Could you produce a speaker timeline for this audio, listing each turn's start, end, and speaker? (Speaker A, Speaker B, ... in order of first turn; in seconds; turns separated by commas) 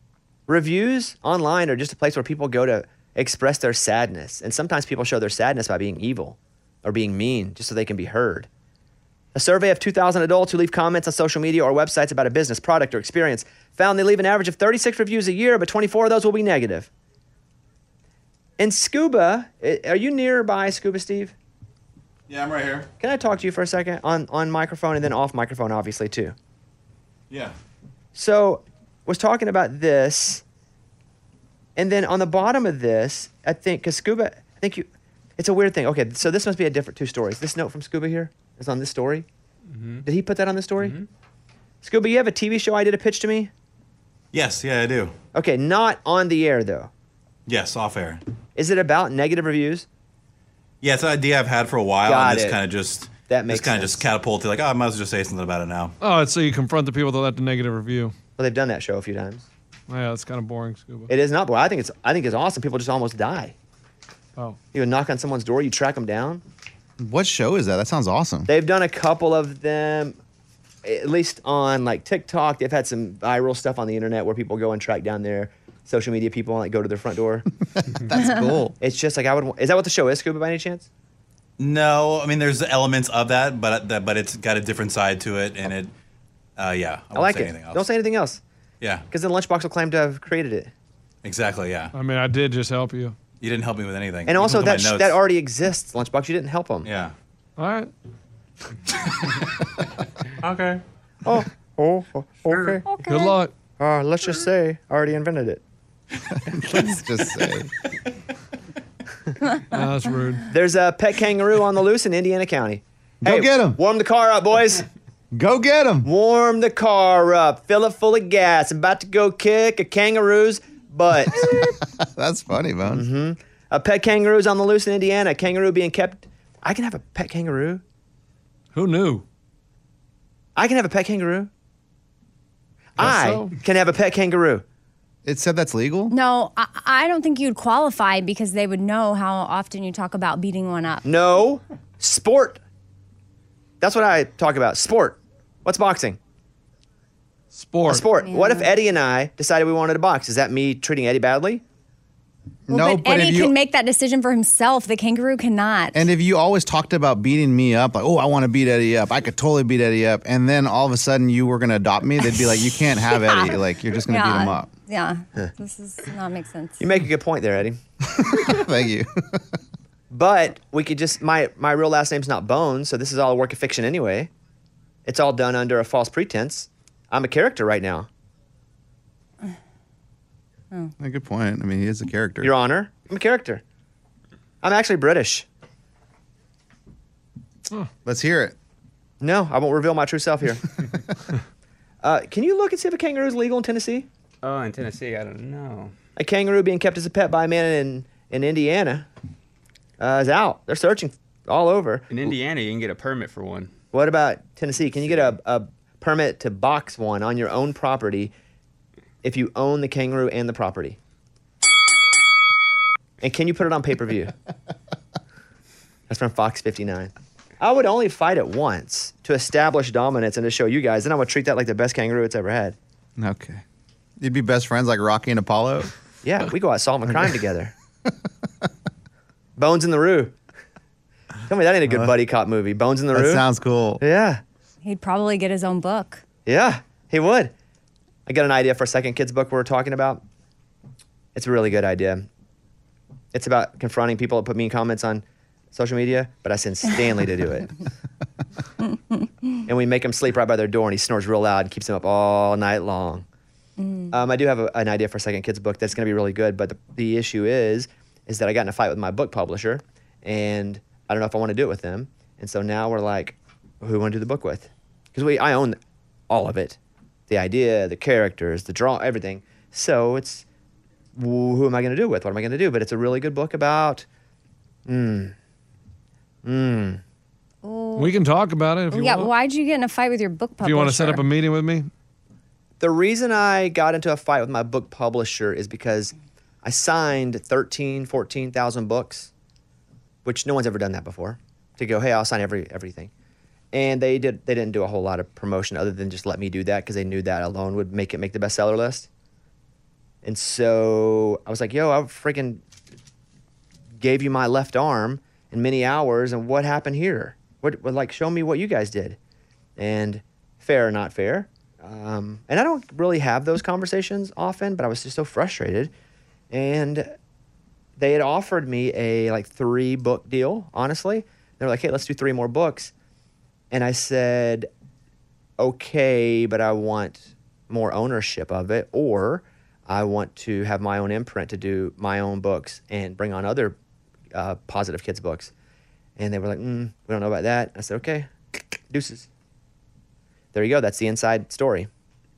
Speaker A: 0.5-8.5, Speaker A: 9.3-16.9, Speaker A: 18.6-21.3, Speaker B: 22.3-22.9, Speaker A: 23.0-26.3, Speaker A: 28.1-30.4, Speaker A: 31.8-34.9, Speaker A: 35.4-39.2, Speaker C: 39.8-40.0, Speaker A: 40.0-41.0, Speaker A: 41.8-43.5, Speaker B: 44.3-45.1, Speaker A: 45.3-46.9, Speaker B: 47.5-48.2, Speaker A: 48.5-49.9, Speaker B: 50.8-55.9, Speaker A: 52.0-52.6, Speaker A: 53.3-54.1, Speaker D: 56.0-58.1, Speaker A: 58.4-59.5, Speaker D: 59.9-61.1, Speaker A: 61.1-63.5, Speaker A: 64.7-66.4, Speaker E: 67.0-68.5, Speaker A: 68.5-70.2, Speaker A: 70.8-77.5, Speaker E: 77.8-78.7, Speaker A: 78.8-80.9, Speaker B: 81.6-85.9, Speaker B: 86.6-87.8, Speaker A: 87.1-88.4, Speaker A: 89.1-90.7, Speaker B: 91.2-91.9, Speaker D: 91.9-93.2, Speaker B: 93.4-95.2, Speaker A: 94.2-96.9, Speaker B: 96.8-97.1, Speaker D: 97.6-97.9, Speaker B: 100.4-100.8, Speaker A: 101.2-102.8, Speaker F: 102.9-103.3, Speaker D: 103.0-103.5, Speaker A: 103.8-105.6, Speaker E: 106.3-107.7, Speaker D: 109.7-110.5, Speaker A: 110.5-114.8, Speaker E: 113.2-113.8, Speaker E: 115.3-116.1, Speaker A: 116.0-121.7, Speaker E: 121.4-123.1, Speaker A: 122.9-127.8, Speaker D: 128.7-129.2, Speaker A: 130.6-131.5, Speaker A: 133.0-134.6, Speaker D: 133.0-133.5, Speaker E: 135.2-136.1, Speaker F: 136.1-141.0, Speaker A: 141.0-142.6, Speaker A: 143.8-146.2, Speaker D: 147.5-148.0, Speaker A: 147.9-151.6, Speaker F: 148.2-148.7, Speaker E: 152.7-153.5, Speaker F: 152.7-156.0, Speaker E: 155.9-164.7, Speaker F: 162.3-166.8, Speaker A: 166.8-167.8, Speaker E: 168.2-169.4, Speaker A: 170.1-174.3, Speaker A: 175.1-178.1, Speaker E: 181.0-182.5, Speaker A: 182.4-183.6, Speaker A: 184.6-185.4, Speaker E: 188.0-188.5, Speaker A: 189.2-190.8, Speaker A: 192.0-194.1, Speaker C: 194.4-195.9, Speaker A: 196.2-199.1, Speaker A: 200.0-202.1, Speaker C: 202.1-203.7, Speaker A: 203.9-208.3, Speaker A: 209.2-211.0, Speaker A: 213.2-214.3, Speaker A: 216.1-222.8, Speaker E: 223.2-223.6, Speaker E: 224.2-225.9, Speaker A: 226.2-227.7, Speaker A: 229.6-230.3, Speaker A: 231.5-233.4, Speaker E: 231.9-232.1, Speaker E: 233.1-234.0, Speaker A: 234.0-234.4, Speaker F: 234.8-236.2, Speaker A: 236.4-237.5, Speaker A: 238.3-240.2, Speaker A: 241.3-242.3, Speaker A: 243.3-247.7, Speaker A: 249.7-253.2, Speaker F: 253.8-254.1, Speaker A: 254.1-265.8, Speaker A: 266.3-270.4, Speaker A: 271.1-274.1, Speaker A: 274.9-275.3, Speaker A: 276.4-277.0, Speaker F: 277.6-278.1, Speaker D: 277.9-279.3, Speaker F: 278.9-281.2, Speaker D: 280.6-281.9, Speaker A: 282.8-289.3, Speaker A: 290.2-293.1, Speaker A: 293.7-299.1, Speaker A: 300.2-302.6, Speaker A: 304.0-309.2, Speaker A: 309.8-315.9, Speaker A: 316.5-317.1, Speaker A: 318.0-322.9, Speaker A: 323.7-324.7, Speaker A: 325.6-333.8, Speaker A: 334.3-335.5, Speaker A: 336.2-338.3, Speaker A: 338.9-339.3, Speaker A: 340.5-341.9